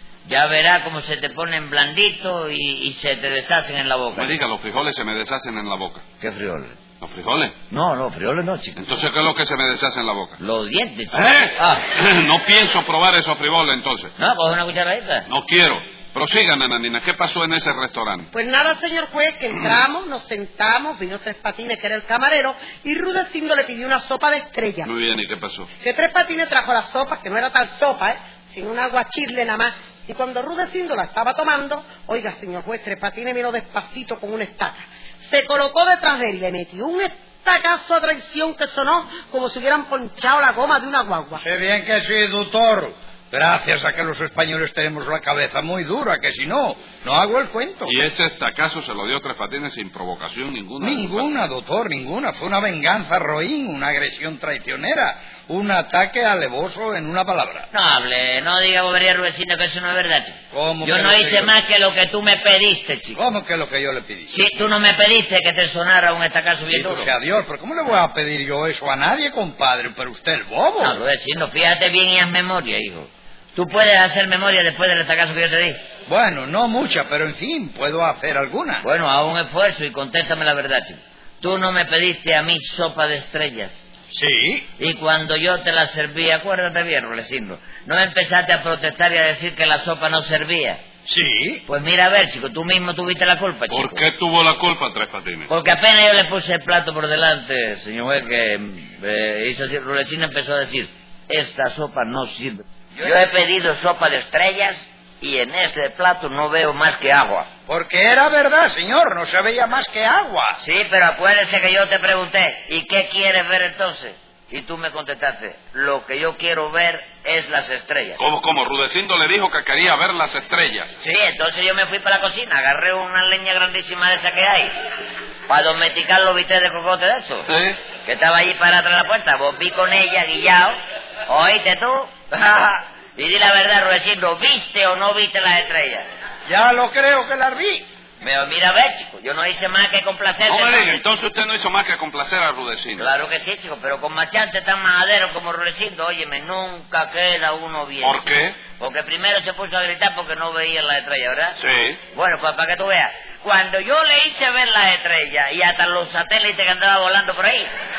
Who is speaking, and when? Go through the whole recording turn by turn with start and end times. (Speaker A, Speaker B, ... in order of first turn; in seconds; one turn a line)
Speaker A: 0.2-4.4
Speaker B: 4.2-6.0
Speaker A: 6.2-6.8
Speaker B: 7.0-7.5
Speaker A: 7.7-8.8
Speaker B: 8.8-10.4
Speaker A: 10.4-11.8
Speaker B: 11.1-14.1
Speaker A: 14.2-15.3
Speaker B: 15.3-18.3
Speaker C: 18.3-24.9
Speaker B: 24.8-25.7
Speaker C: 25.8-41.4
Speaker D: 41.4-48.0
Speaker B: 47.8-51.3
Speaker D: 50.8-57.7
Speaker A: 57.7-63.2
Speaker D: 60.5-61.5
Speaker D: 63.1-64.4
Speaker A: 64.3-67.1
Speaker D: 66.7-71.0
Speaker A: 70.8-75.8
Speaker D: 76.1-78.9
Speaker A: 78.8-83.9
Speaker D: 84.1-84.7
Speaker A: 84.8-90.8
Speaker D: 91.1-91.6
Speaker A: 91.7-94.1
Speaker B: 93.7-95.5
Speaker A: 95.5-107.5
Speaker D: 107.7-110.6
Speaker A: 110.6-118.2
Speaker B: 118.2-120.9
Speaker A: 121.0-124.7
Speaker A: 125.5-127.5
Speaker B: 127.5-127.8
Speaker A: 128.0-130.8
Speaker A: 131.3-136.1
Speaker D: 136.5-137.9
Speaker A: 138.2-140.9
Speaker B: 140.5-143.1
Speaker A: 143.0-151.6
Speaker B: 148.0-148.6
Speaker B: 151.6-152.0
Speaker A: 152.1-157.7